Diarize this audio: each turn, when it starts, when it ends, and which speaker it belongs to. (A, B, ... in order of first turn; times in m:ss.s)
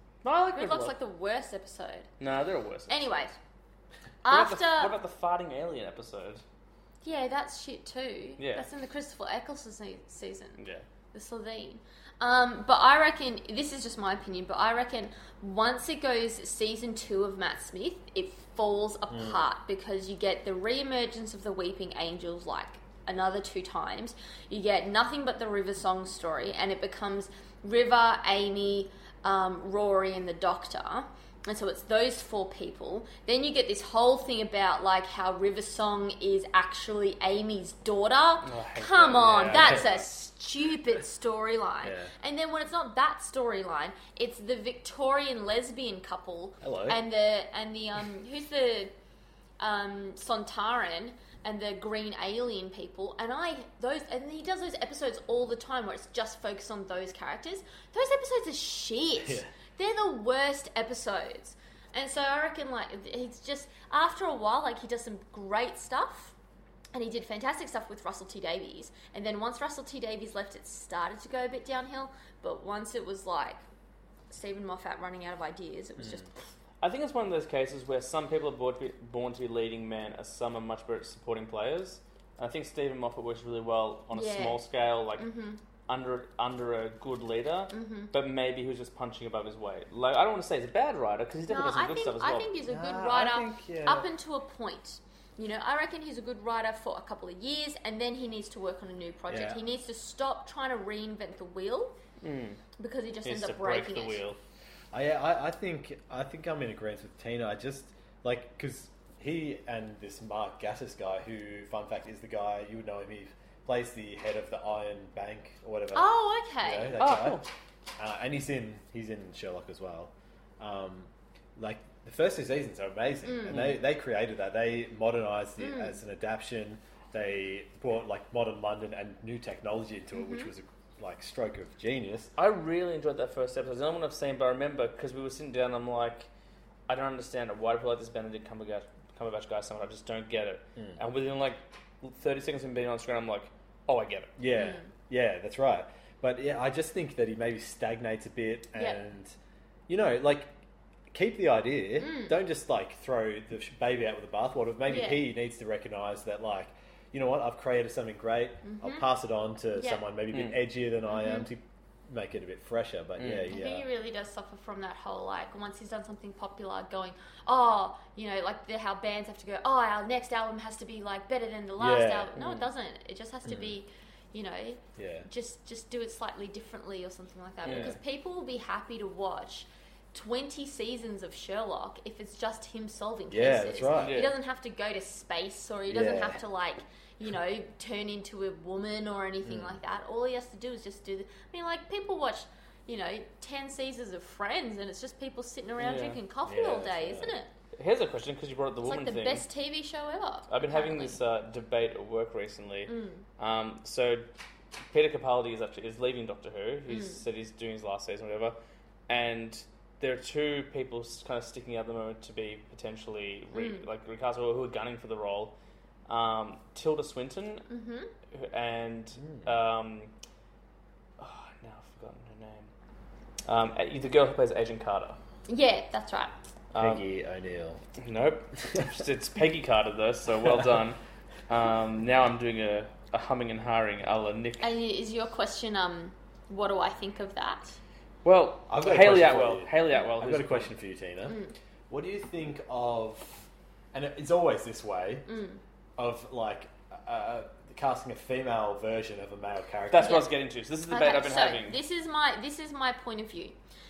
0:00.2-0:01.0 A
0:00.6-0:02.1 B
0:02.2-0:03.0 A
0:02.9-0:03.4 B
0:04.2-0:05.0 B
0:04.3-0:06.4 A
0:07.0-0:10.6 B
0:08.4-0:08.7 A
0:10.6-0:10.8 A
0:11.1-0:48.9 B
0:19.1-0:19.4 C
0:38.4-0:40.0 A
0:39.5-0:39.8 C
0:41.8-0:42.1 C
0:46.6-0:47.0 C
0:49.6-1:06.4 B
1:06.9-1:13.6 B
1:14.3-1:16.3 B
1:16.8-1:25.3 A
1:24.1-1:24.6 B
1:25.2-1:25.6 B
1:25.9-1:32.5 A
1:27.7-1:28.1 B
1:31.5-1:42.0 B
1:32.6-1:34.1 C
1:39.3-1:39.6 C
1:42.2-1:42.6 A
1:42.8-1:44.2 B
1:43.2-1:44.4 A
1:44.9-1:56.1 C
1:55.9-1:57.0 B
1:56.6-1:57.4 C
1:57.0-1:57.5 A
1:58.0-2:12.3 C
2:03.3-2:03.8 B
2:05.6-2:06.0 B
2:10.2-2:10.5 B
2:12.4-2:16.3 A
2:16.9-2:24.3 A
2:24.4-2:29.4 C
2:24.5-2:24.9 B
2:29.9-2:30.5 C
2:31.1-2:43.9 C
2:32.0-2:32.4 B
2:34.9-2:35.2 B
2:38.6-2:39.1 B
2:39.7-2:40.0 B
2:40.3-2:40.6 A
2:41.1-2:41.5 B
2:43.2-2:43.5 A
2:43.5-3:17.5 B
2:51.8-2:52.4 C
2:52.4-2:52.7 A
2:53.5-2:53.8 C
2:55.0-2:55.3 C
2:57.6-2:58.0 A
2:57.6-2:58.0 C
3:03.3-3:04.3 C
3:04.0-3:04.3 A
3:05.9-3:06.4 C
3:09.4-3:09.8 C
3:15.8-3:16.2 A
3:16.4-3:17.4 C
3:17.7-3:19.4 A
3:18.8-3:21.2 B
3:20.5-3:24.3 A
3:22.9-3:23.2 B
3:24.9-3:28.6 A
3:26.9-3:27.2 B
3:29.1-3:35.5 A
3:33.5-3:33.8 B
3:36.1-3:37.7 A
3:37.7-3:38.1 B
3:38.3-3:40.1 A
3:39.2-3:39.5 C
3:41.2-3:42.7 A
3:43.5-3:45.2 A
3:45.5-3:46.4 B
3:46.7-3:47.0 A
3:46.8-3:47.8 C
3:48.0-3:54.7 A
3:54.6-3:57.8 B
3:58.2-4:00.7 A
3:58.7-4:01.4 C
4:01.2-4:01.6 B
4:01.9-4:05.3 C
4:05.3-4:05.6 B
4:06.0-4:10.2 C
4:09.9-4:11.8 A
4:10.0-4:10.3 B
4:10.9-4:13.6 B